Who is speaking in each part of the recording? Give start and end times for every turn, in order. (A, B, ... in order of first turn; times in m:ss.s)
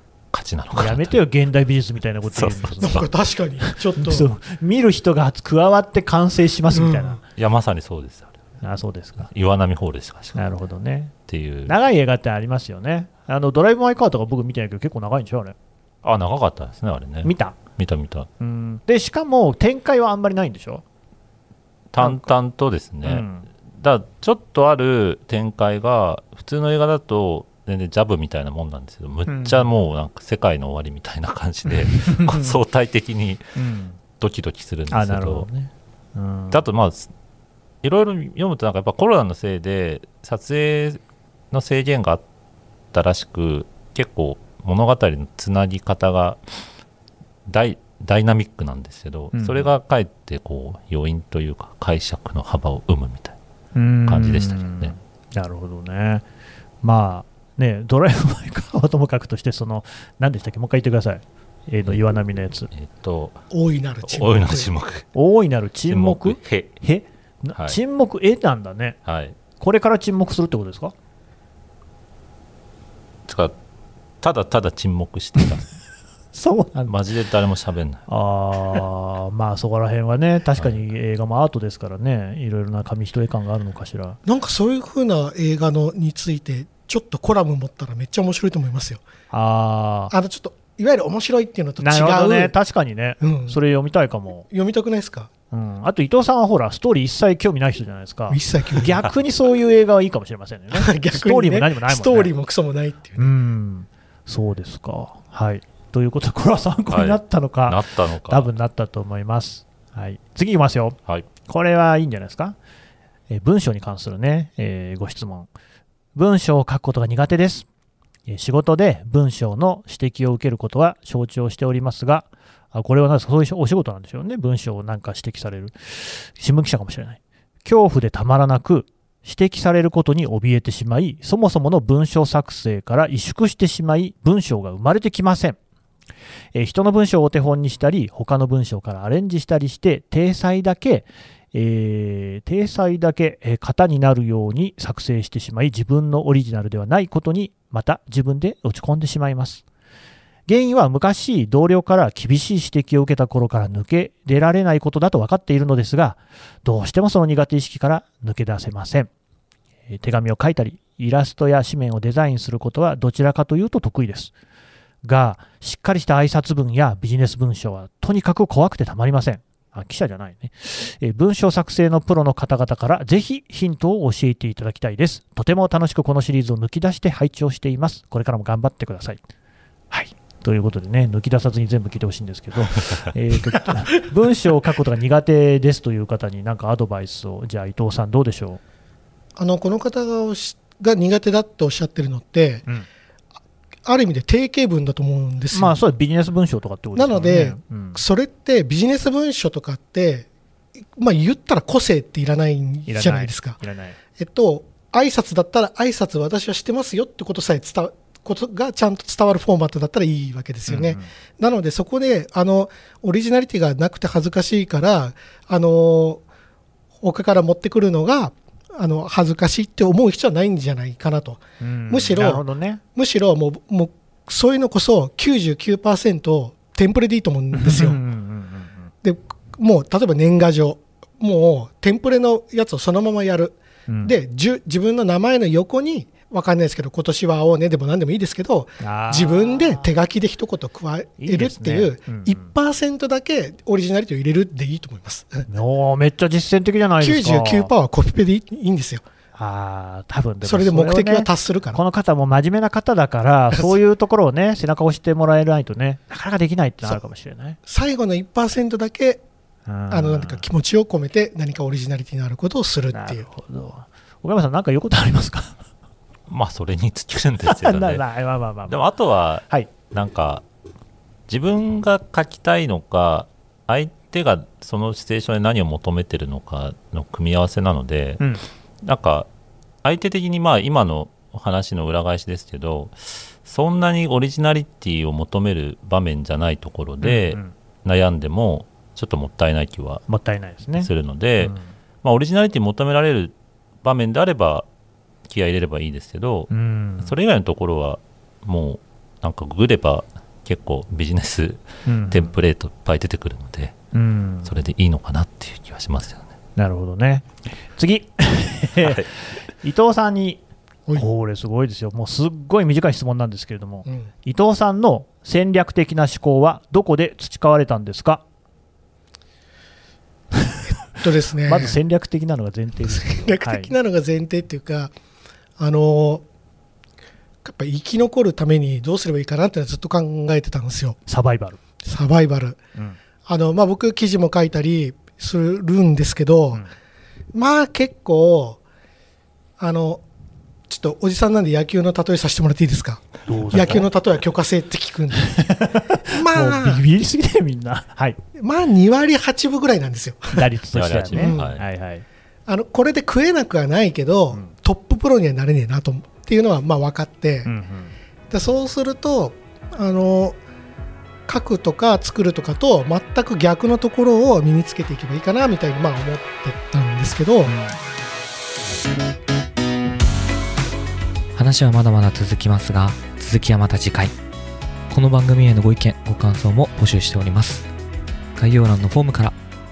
0:00.3-0:01.2 A
0:00.7-0:03.1 B
0:02.3-0:03.0 A
0:02.8-0:04.3 C
0:03.9-0:07.2 B
0:06.7-0:07.2 C
0:07.4-0:08.4 A
0:08.6-0:09.3 B
0:09.2-0:10.5 A
0:10.3-0:11.1 B
0:11.3-0:11.8 A
0:11.7-0:15.5 B
0:16.0-0:18.3 A
0:17.2-0:17.6 B
0:18.4-0:20.8 B
0:21.9-0:33.4 A
0:22.0-0:22.3 B
0:23.0-0:23.4 B
0:29.3-0:29.7 B
0:32.0-0:32.6 B
0:33.6-0:34.0 B
0:34.2-0:35.5 A
0:34.9-0:36.6 B
0:36.5-0:37.1 A
0:37.8-0:41.0 A
0:41.5-0:42.2 A
0:42.9-0:46.5 A
0:47.5-0:53.4 A
0:49.3-0:49.7 B
0:53.7-0:56.2 B
0:54.1-0:54.9 A
0:56.8-1:02.7 B
1:02.7-1:03.4 A
1:03.5-1:04.7 C
1:04.0-1:05.1 A
1:05.1-1:09.0 B
1:05.9-1:06.7 A
1:09.0-1:09.4 A
1:09.6-1:10.9 B
1:13.3-1:13.5 A
1:14.2-1:15.7 A
1:16.3-1:16.9 B
1:16.8-1:18.0 A
1:18.1-1:24.2 B
1:24.2-1:29.0 C
1:29.3-1:30.1 B
1:30.1-1:32.5 C
1:31.8-1:34.4 B
1:33.2-1:33.6 C
1:34.5-1:35.3 C
1:35.5-1:42.3 B
1:38.3-1:39.0 C
1:40.7-1:43.3 C
1:43.2-1:52.6 B
1:46.9-1:48.5 A
1:53.3-1:55.5 B
1:56.1-1:57.6 B
1:58.3-2:15.6 B
2:16.5-2:29.6 B
2:30.5-2:39.1 B
2:39.9-2:44.3 B
2:45.0-2:59.2 B
2:59.9-3:08.6 B
3:09.4-3:12.6 C
3:13.8-3:15.8 C
3:15.5-3:18.0 B
3:16.9-3:20.3 C
3:21.0-3:23.6 C
3:22.9-3:24.0 B
3:24.2-3:36.2 C
3:30.7-3:31.1 B
3:37.0-3:42.4 C
3:41.6-3:42.8 B
3:42.9-3:48.0 C
3:47.5-3:48.9 B
3:49.0-4:05.5 C
3:53.9-3:54.1 B
3:58.8-3:59.9 B
4:01.2-4:02.5 B
4:05.5-4:07.7 B
4:07.0-4:09.0 C
4:09.4-4:17.6 B
4:10.4-4:11.8 C
4:17.6-4:19.2 C
4:19.7-4:20.5 B
4:19.9-4:23.3 C
4:22.9-4:25.6 B
4:26.3-4:28.0 A
4:27.5-4:28.8 B
4:28.7-4:30.4 A
4:31.3-4:38.2 A
4:38.2-4:38.4 B
4:38.8-4:39.3 A
4:39.8-4:50.0 A
4:47.0-4:47.5 B
4:50.1-4:50.9 B
4:50.8-4:54.6 A
4:51.4-4:51.7 B
4:55.3-5:03.7 A
4:56.5-4:57.1 B
5:01.8-5:02.3 B
5:03.9-5:04.5 B
5:04.4-5:06.3 A
5:06.6-5:10.4 B
5:08.8-5:09.1 A
5:10.9-5:18.2 B
5:21.0-5:21.8 C
5:21.4-5:23.7 B
5:22.8-5:24.9 C
5:25.6-5:26.2 C
5:27.4-5:31.0 C
5:31.1-5:31.6 B
5:31.8-5:32.6 C
5:33.2-5:36.6 C
5:37.3-5:38.6 C
5:39.6-5:40.0 C
5:40.7-5:45.5 C
5:43.3-5:43.8 B
5:45.3-5:48.2 B
5:46.1-5:46.8 C
5:48.4-5:50.4 C
5:50.3-5:52.0 B
5:50.7-5:51.6 A
5:51.1-5:51.6 C
5:52.5-5:57.5 C
5:57.4-5:57.9 B
5:58.3-6:00.4 C
6:01.3-6:07.5 C
6:07.4-6:07.8 B
6:11.4-6:14.1 D
6:14.9-6:17.7 D
6:18.4-6:19.4 D